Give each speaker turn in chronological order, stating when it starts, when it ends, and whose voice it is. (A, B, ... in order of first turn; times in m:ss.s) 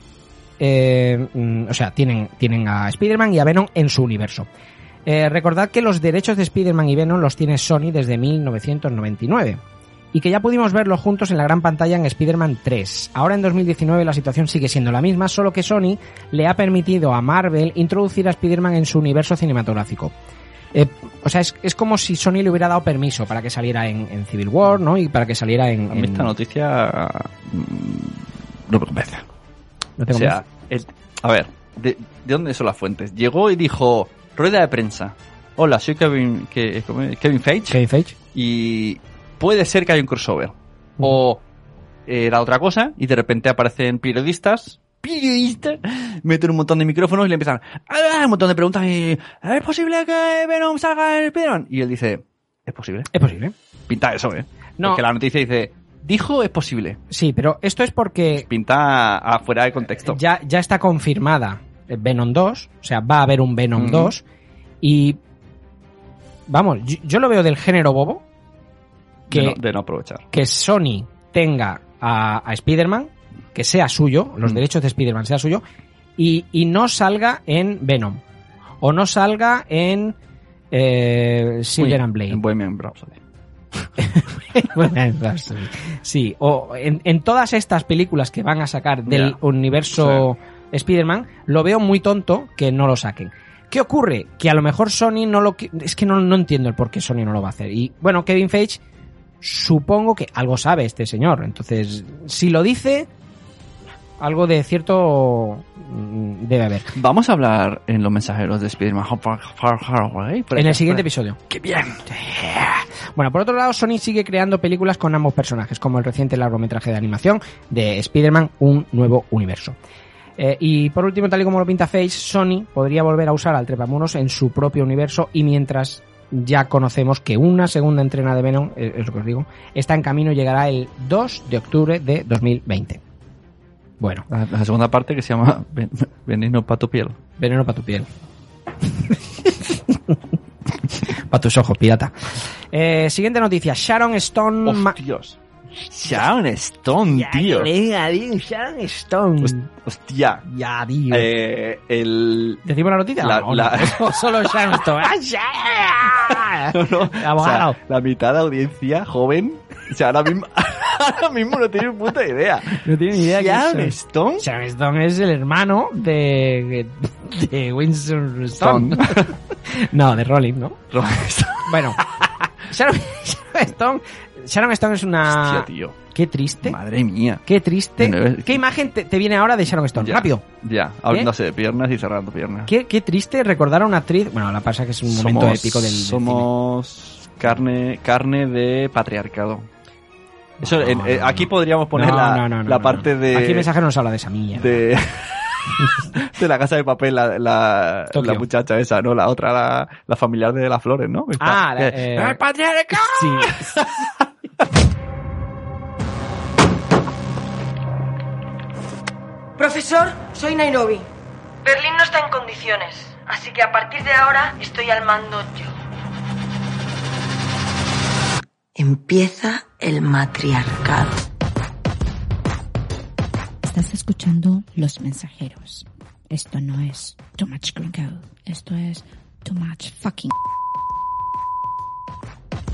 0:00.6-0:04.5 A
0:05.0-0:09.6 A
0:10.1-0:20.1 A
0:20.7-0:26.3 A
0:25.9-0:29.2 B
0:30.0-0:30.4 A
0:30.1-0:37.8 B
0:37.7-0:38.1 A
0:38.3-0:41.4 B
0:42.1-0:53.1 B
0:53.1-0:53.5 A
0:53.9-0:57.0 B
0:57.1-0:58.4 A
0:58.4-1:00.2 B
1:00.0-1:04.2 A
1:03.8-1:04.1 B
1:04.8-1:05.2 A
1:06.5-1:08.2 A
1:09.3-1:10.2 B
1:09.3-1:09.6 A
1:10.3-1:15.6 A
1:16.2-1:18.2 A
1:18.8-1:20.1 A
1:20.7-1:22.4 A
1:21.8-1:23.2 B
1:24.0-1:38.8 A
1:29.0-1:29.4 B
1:30.0-1:30.3 B
1:39.4-1:43.1 A
1:44.2-1:46.9 A
1:46.9-1:52.0 B
1:50.5-1:51.4 A
1:52.1-1:59.8 A
2:00.4-2:13.0 A
2:14.0-2:14.2 A
2:14.3-2:17.2 B
2:17.4-2:18.1 A
2:21.3-2:22.1 A
2:22.7-2:25.0 A
2:24.6-2:25.4 B
2:25.9-2:27.7 B
2:27.1-2:29.7 A
2:29.4-2:30.4 B
2:30.5-2:31.3 A
2:31.1-2:32.6 B
2:32.6-2:37.8 A
2:33.2-2:34.3 B
2:36.7-2:44.4 B
2:42.8-2:50.8 A
2:48.6-2:49.3 B
2:50.9-2:52.4 B
2:51.6-2:52.0 A
2:52.7-2:56.8 A
2:55.3-2:56.0 B
2:56.6-2:57.4 B
2:57.4-3:00.4 A
2:58.0-2:58.6 B
2:59.9-3:02.7 B
3:02.7-3:06.5 A
3:05.0-3:09.7 B
3:10.6-3:14.8 A
3:10.6-3:13.7 B
3:14.6-3:24.1 B
3:18.1-3:18.4 A
3:21.4-3:22.4 A
3:22.9-3:23.8 A
3:29.6-3:31.0 C
3:31.6-3:35.7 C
3:38.8-3:41.1 D
3:43.6-3:50.3 E